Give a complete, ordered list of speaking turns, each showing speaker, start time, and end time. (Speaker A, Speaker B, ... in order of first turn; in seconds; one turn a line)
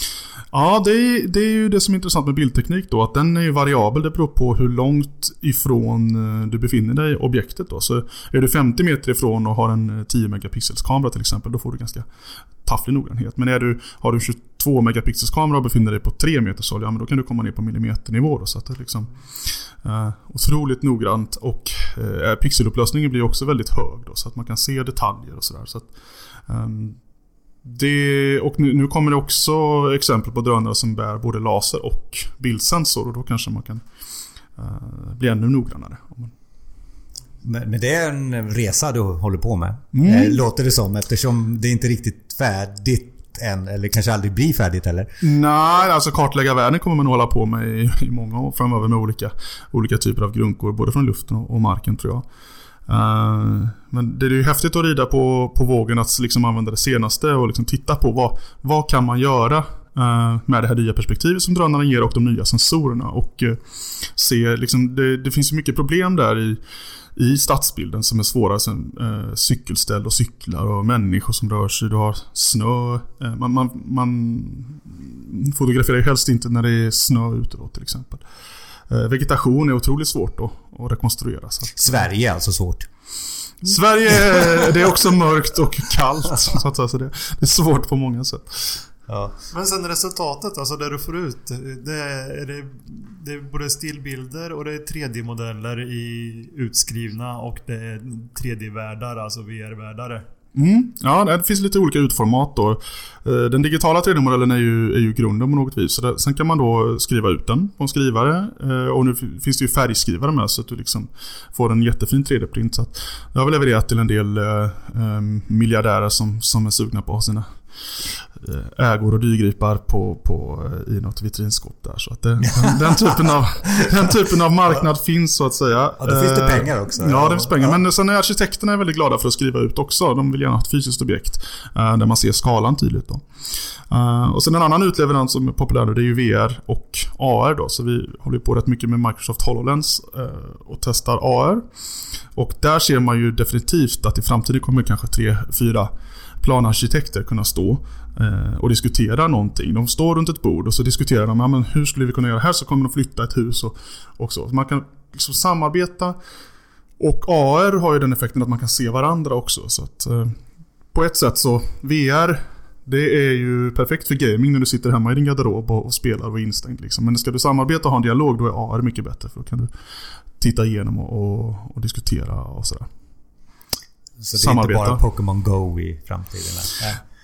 Speaker A: 0.5-12.1
Speaker A: 12.6-19.1
Speaker A: 19.8-25.9
Speaker A: 26.5-27.0
Speaker A: 27.6-33.8
Speaker A: 34.6-36.3
Speaker B: 37.4-45.1
Speaker A: 39.9-40.4
Speaker A: 45.2-52.2
Speaker A: 52.9-66.6
Speaker A: 67.2-78.2
Speaker A: 78.9-82.0
Speaker B: 81.8-82.9
Speaker A: 83.6-88.8
Speaker B: 89.1-89.3
Speaker C: 89.5-100.3
Speaker A: 100.5-117.5
Speaker A: 118.0-133.2
Speaker B: 122.5-122.8
Speaker B: 126.0-127.8
Speaker A: 133.9-141.6
Speaker A: 142.3-156.2
Speaker A: 157.0-160.3
Speaker A: 160.9-169.7
Speaker A: 170.4-172.9
Speaker B: 174.2-177.0
Speaker A: 174.3-175.0